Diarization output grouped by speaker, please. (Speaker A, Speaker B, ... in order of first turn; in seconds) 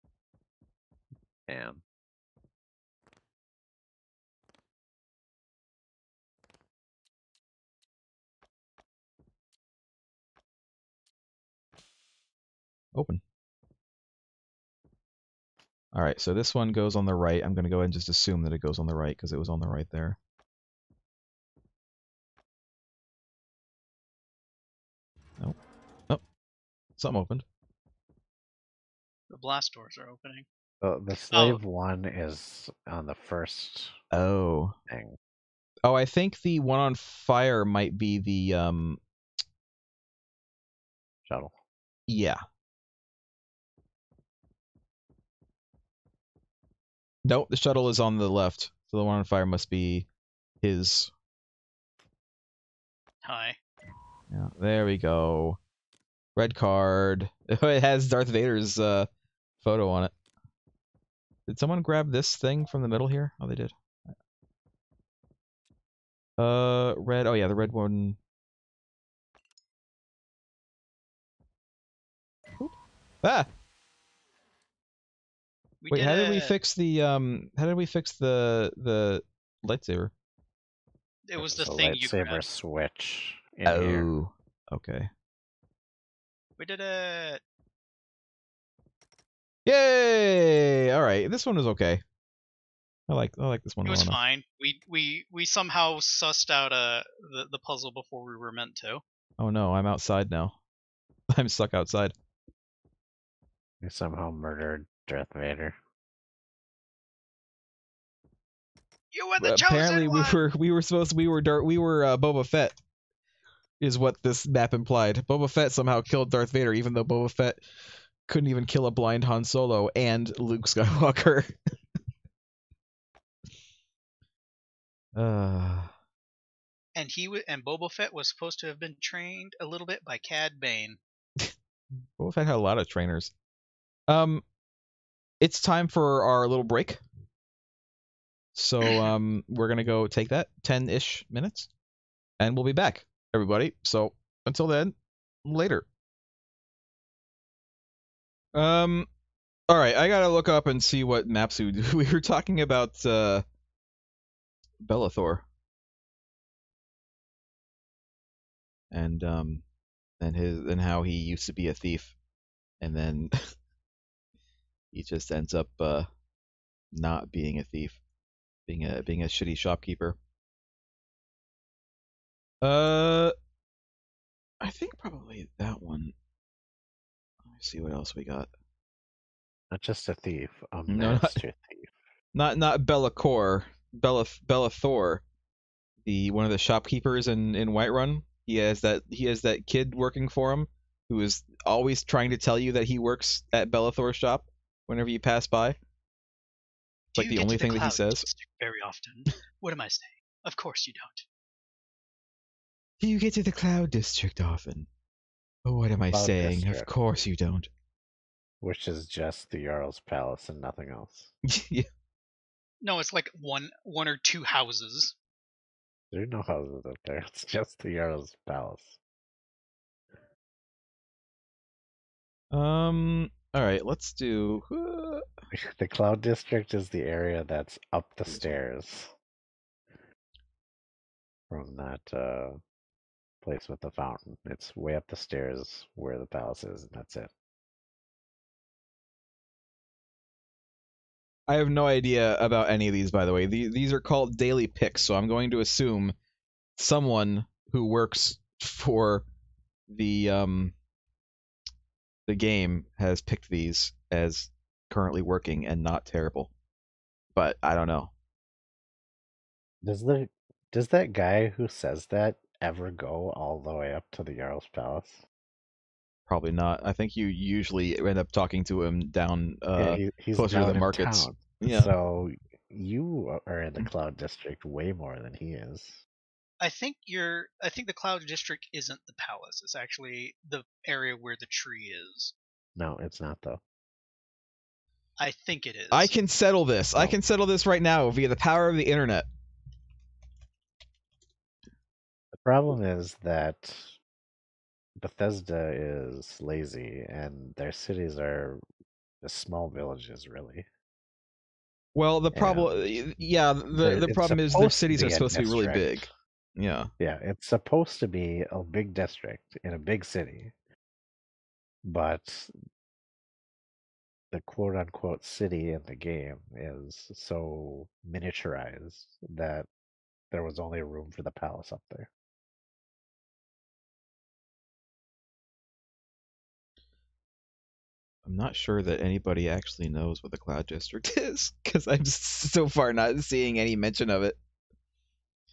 Speaker A: 1.5-1.8, 30.8-34.0, 34.9-35.2, 41.2-41.6, 81.3-84.1, 103.8-105.8, 179.7-181.9, 206.1-206.9, 208.6-211.3, 216.1-219.0, 225.5-229.1, 231.5-232.6, 233.4-237.3, 259.8-265.2, 269.8-276.0, 282.8-283.6, 292.3-294.0, 295.0-298.6, 299.2-300.7, 302.3-306.1, 307.0-310.5, 311.8-312.5, 314.3-319.7, 320.3-322.1
Speaker B: 12.9-13.2, 15.9-20.2, 27.0-27.4, 34.1-34.8, 35.8-39.0, 42.1-42.4, 47.2-50.0, 50.6-51.1, 54.3-55.6, 56.4-59.1, 59.6-60.1, 61.5-64.1, 66.4-68.2, 72.6-73.5, 75.9-80.1, 83.7-85.1, 89.7-92.0, 93.1-94.2, 99.4-100.5, 101.3-102.1, 109.4-112.8, 113.8-117.7, 118.2-121.5, 125.2-125.9, 132.2-133.3, 134.1-134.4, 135.4-137.0, 138.5-141.7, 142.4-144.9, 145.4-145.9, 148.5-149.1, 149.7-153.4, 154.8-155.4, 158.9-159.6, 160.2-162.1, 162.8-163.3, 164.9-166.1, 166.9-168.0, 168.7-170.2, 172.6-173.3, 174.6-176.1, 177.4-178.5, 180.9-181.4, 182.3-185.2, 186.0-195.8, 197.2-198.3, 203.0-204.9, 205.6-207.7, 211.5-211.9, 222.5-225.2, 241.5-246.1, 246.8-249.2, 249.9-250.7, 252.3-256.5, 257.3-258.1, 266.3-271.9, 285.9-289.3, 301.9-306.9, 328.2-334.4
Speaker C: 29.3-30.4, 31.3-31.6, 53.2-53.6, 75.8-76.5, 81.3-82.4, 86.6-87.4, 93.8-99.0, 109.1-110.4, 126.9-131.0, 138.8-139.1, 197.1-201.2, 212.8-215.1, 276.6-282.3, 285.2-286.1